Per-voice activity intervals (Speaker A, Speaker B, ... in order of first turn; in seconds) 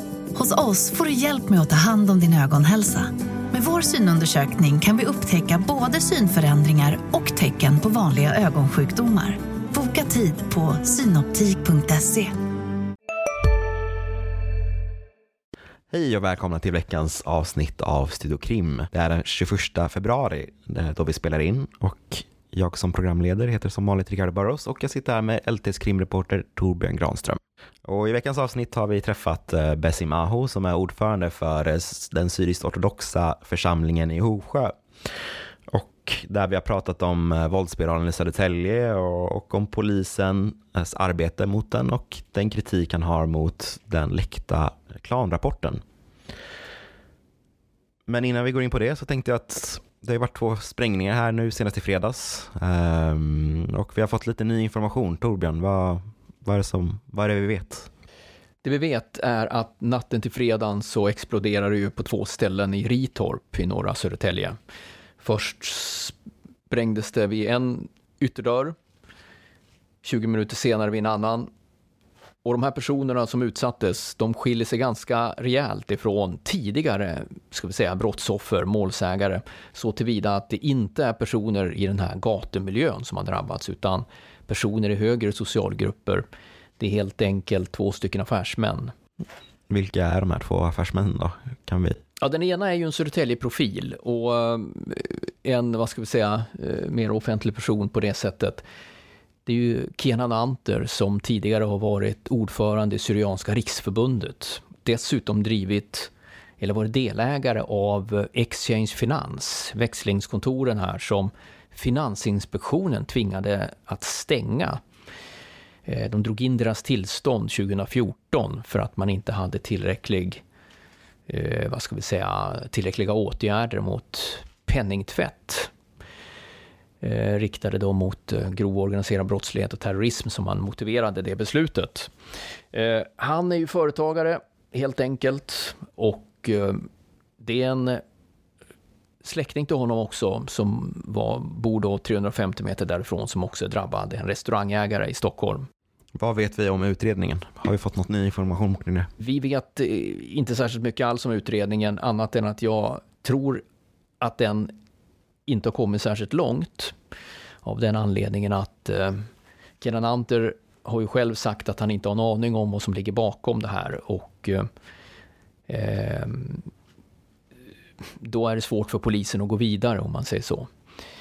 Speaker A: 0.3-12.3
Speaker B: 15.9-34.8, 35.7-45.8, 48.1-57.9, 89.7-92.0, 146.2-149.1
Speaker C: 58.6-64.6, 65.2-66.2, 66.7-68.8, 70.0-71.5, 72.4-86.3, 86.8-88.9, 92.2-98.6, 99.5-114.8, 115.9-120.4, 121.3-125.7, 127.0-132.1, 132.7-136.9, 137.4-138.0, 139.2-145.7, 149.2-153.6, 154.2-154.7, 155.5-156.9, 157.7-159.2, 159.8-164.7, 165.7-166.7, 168.2-170.7